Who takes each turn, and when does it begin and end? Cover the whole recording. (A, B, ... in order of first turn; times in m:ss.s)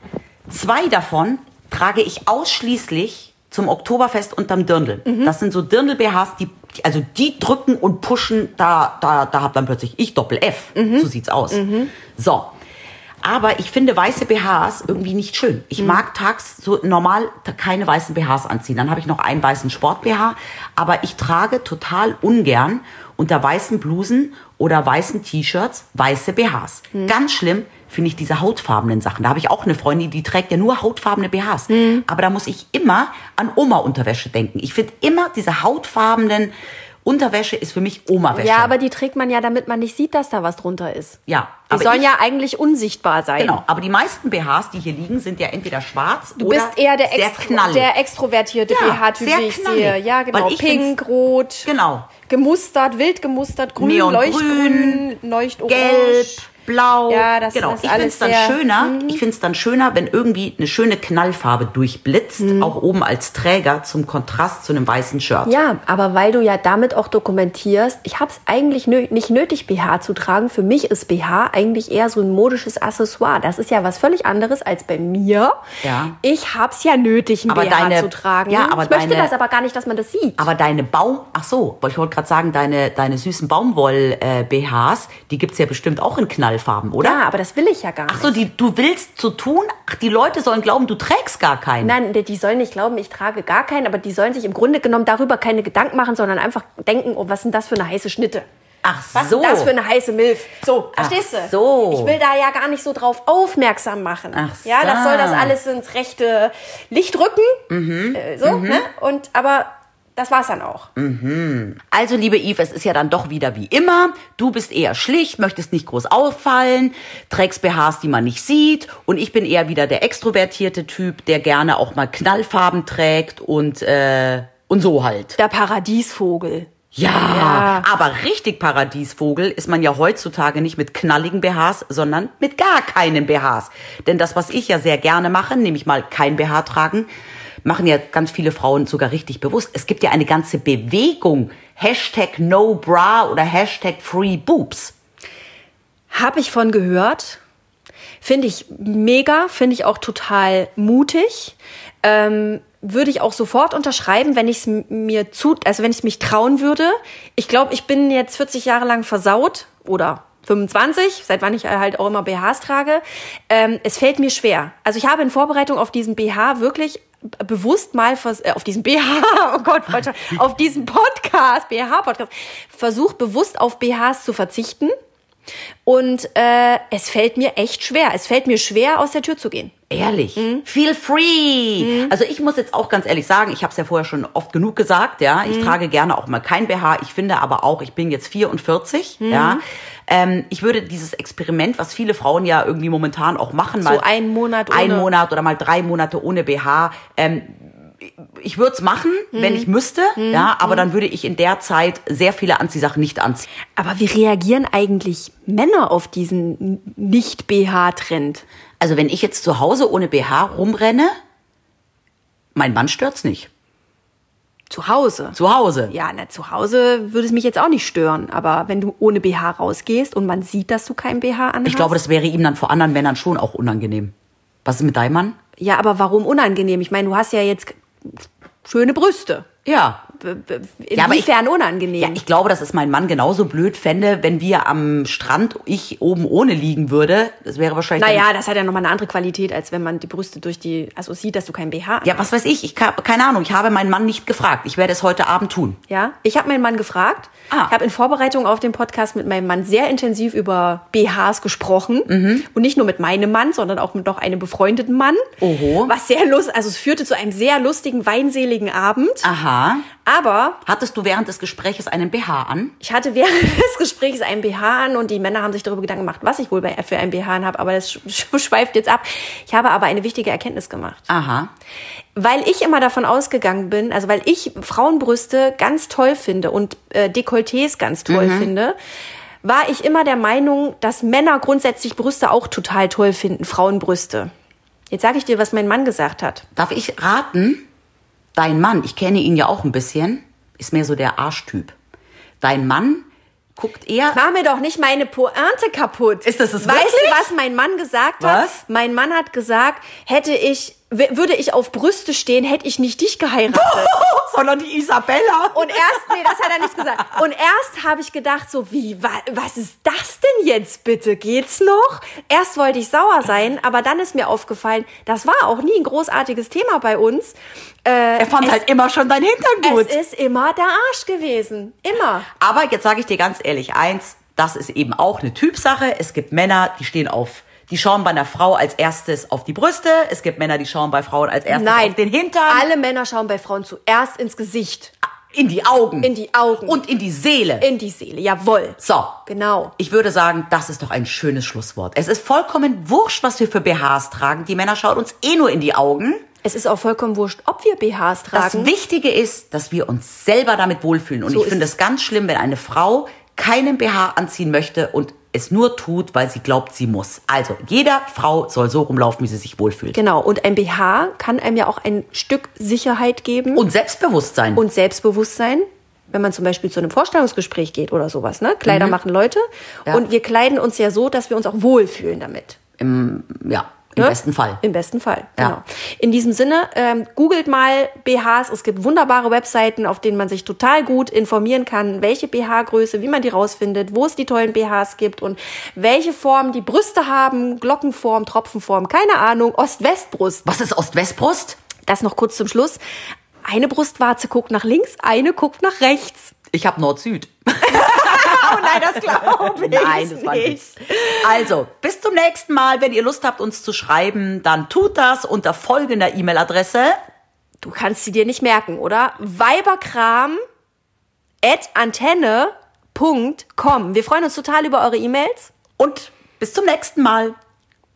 0:00.5-0:12.5 A
0:05.0-0:05.3 B
0:10.8-0:11.9 B
0:13.2-0:36.5 A
0:31.7-0:32.0 B
0:37.0-0:38.7 A
0:38.3-0:41.2 B
0:41.3-0:42.1 A
0:41.7-0:43.6 B
0:43.4-0:47.9 A
0:46.4-0:51.7 B
0:48.7-0:50.9 A
0:51.6-0:52.1 A
0:52.2-0:56.4 B
0:53.8-0:55.0 A
0:55.7-1:05.6 A
0:57.1-0:59.2 B
1:02.4-1:02.7 B
1:05.4-1:15.6 B
1:15.8-1:16.2 A
1:16.2-1:20.4 B
1:17.5-1:19.3 A
1:20.4-1:27.2 A
1:27.0-1:28.4 B
1:28.1-1:32.0 A
1:31.8-1:38.4 B
1:38.8-1:39.7 A
1:39.1-1:50.9 B
1:41.0-1:42.2 A
1:44.3-1:45.6 A
1:47.7-1:48.8 A
1:51.0-2:05.4 A
2:05.4-2:06.7 B
2:06.9-2:17.1 A
2:07.2-2:07.9 B
2:17.6-2:24.9 A
2:26.1-2:27.4 B
2:28.2-2:54.9 B
2:55.8-2:59.7 B
2:59.9-3:14.0 A
3:00.4-3:00.6 B
3:01.8-3:02.1 B
3:05.4-3:05.7 B
3:09.2-3:09.6 B
3:13.8-3:15.1 B
3:14.7-3:23.4 A
3:19.3-3:20.8 B
3:23.8-3:28.4 B
3:28.8-3:31.1 A
3:32.5-3:33.5 A
3:34.7-3:35.4 B
3:35.3-3:35.9 A
3:35.9-3:42.0 B
3:41.6-3:44.1 A
3:44.6-3:45.4 A
3:45.6-3:49.4 B
3:49.6-3:50.0 A
3:50.2-3:52.2 B
3:50.9-3:51.3 A
3:52.0-3:58.2 A
3:58.0-4:02.2 B
4:02.0-4:05.8 A
4:05.9-4:19.3 B
4:12.1-4:12.4 A
4:15.4-4:15.9 A
4:19.2-4:19.9 A
4:20.0-4:20.6 B
4:20.6-4:22.7 A
4:22.8-4:31.1 B
4:31.1-4:31.5 A
4:32.2-4:38.7 B
4:38.1-4:38.5 A
4:39.4-4:44.3 B
4:44.9-4:46.4 B
4:46.6-4:47.6 A
4:48.3-4:51.7 A
4:52.4-4:54.2 A
4:54.1-5:03.9 B
4:56.2-4:57.3 A
4:58.2-4:58.6 A
5:03.5-5:07.1 A
5:05.5-5:18.6 B
5:18.2-5:20.0 A
5:19.6-5:22.3 B
5:22.4-5:32.7 A
5:31.5-5:34.9 B
5:35.3-5:36.1 A
5:36.0-5:36.8 B
5:36.6-5:37.7 A
5:37.6-5:39.7 B
5:38.8-5:39.2 A
5:39.8-5:46.2 A
5:46.4-5:48.7 B
5:48.3-6:00.0 A
5:51.3-5:51.6 B
5:59.9-6:03.6 B
6:03.5-6:04.6 A
6:04.6-6:12.6 B
6:08.6-6:09.0 A
6:12.8-6:14.6 A
6:14.0-6:30.4 B
6:30.4-6:31.6 A
6:31.8-6:32.8 B
6:33.4-6:36.3 B
6:36.5-6:47.0 A
6:37.6-6:40.6 B
6:47.6-6:50.4 B
6:51.4-6:55.5 B
6:55.8-6:57.4 A